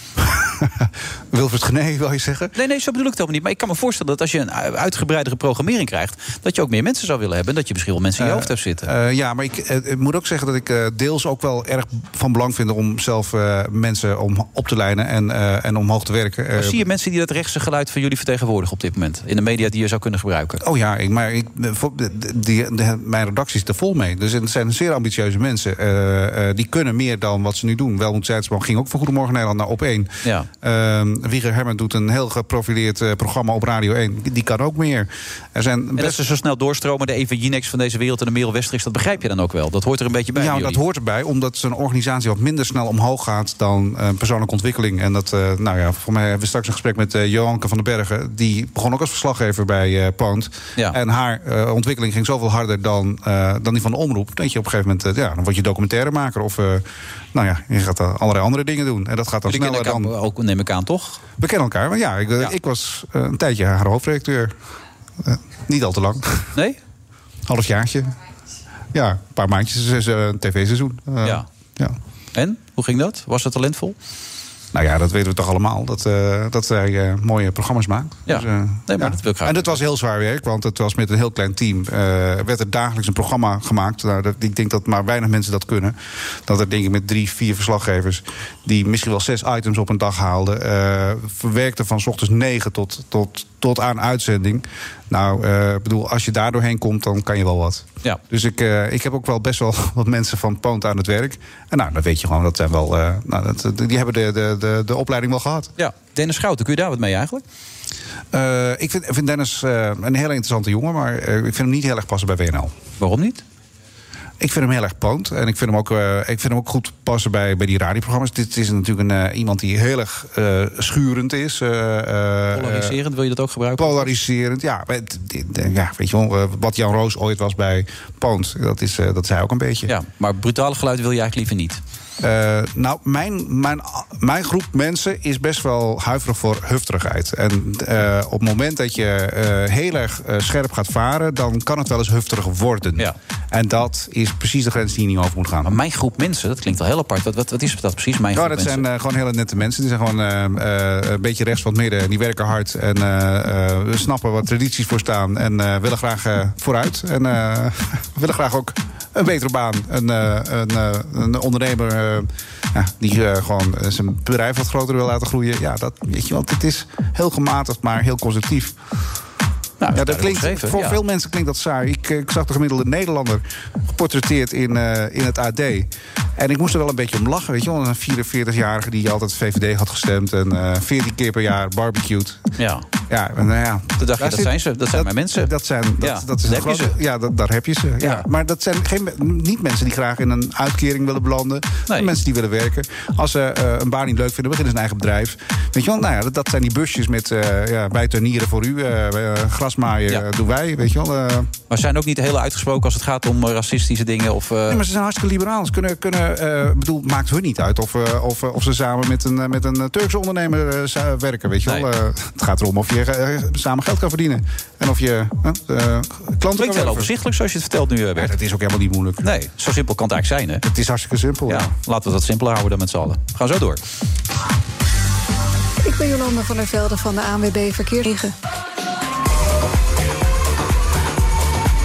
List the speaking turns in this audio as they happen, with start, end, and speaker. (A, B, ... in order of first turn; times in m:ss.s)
0:00.2-0:02.5 A
0:02.5-0:08.9 B
0:08.2-0:16.8 A
0:16.6-0:20.6 B
0:20.6-0:36.2 A
0:36.0-0:40.8 B
0:40.3-1:00.1 A
0:59.5-1:01.2 B
1:01.4-1:04.6 A
1:05.2-1:06.5 A
1:07.4-1:08.1 A
1:08.9-1:12.0 A
1:12.3-1:14.0 B
1:14.7-1:45.7 A
1:18.2-1:19.8 B
1:45.8-1:47.4 B
1:48.3-1:52.7 A
1:53.0-1:53.4 B
1:54.4-2:03.0 A
2:02.5-2:04.2 B
2:03.8-2:09.9 A
2:09.9-2:11.8 B
2:12.2-2:25.8 A
2:25.6-2:28.8 B
2:28.3-2:48.8 A
2:49.8-2:51.0 B
2:49.9-3:02.5 A
3:02.6-3:02.8 B
3:03.1-3:21.5 A
3:04.0-3:06.9 B
3:08.0-3:08.2 B
3:21.7-3:24.8 B
3:24.7-3:37.1 A
3:36.6-3:38.3 B
3:38.2-3:39.3 A
3:39.2-3:40.6 B
3:40.6-3:41.7 A
3:41.5-3:43.8 B
3:45.8-3:48.3 C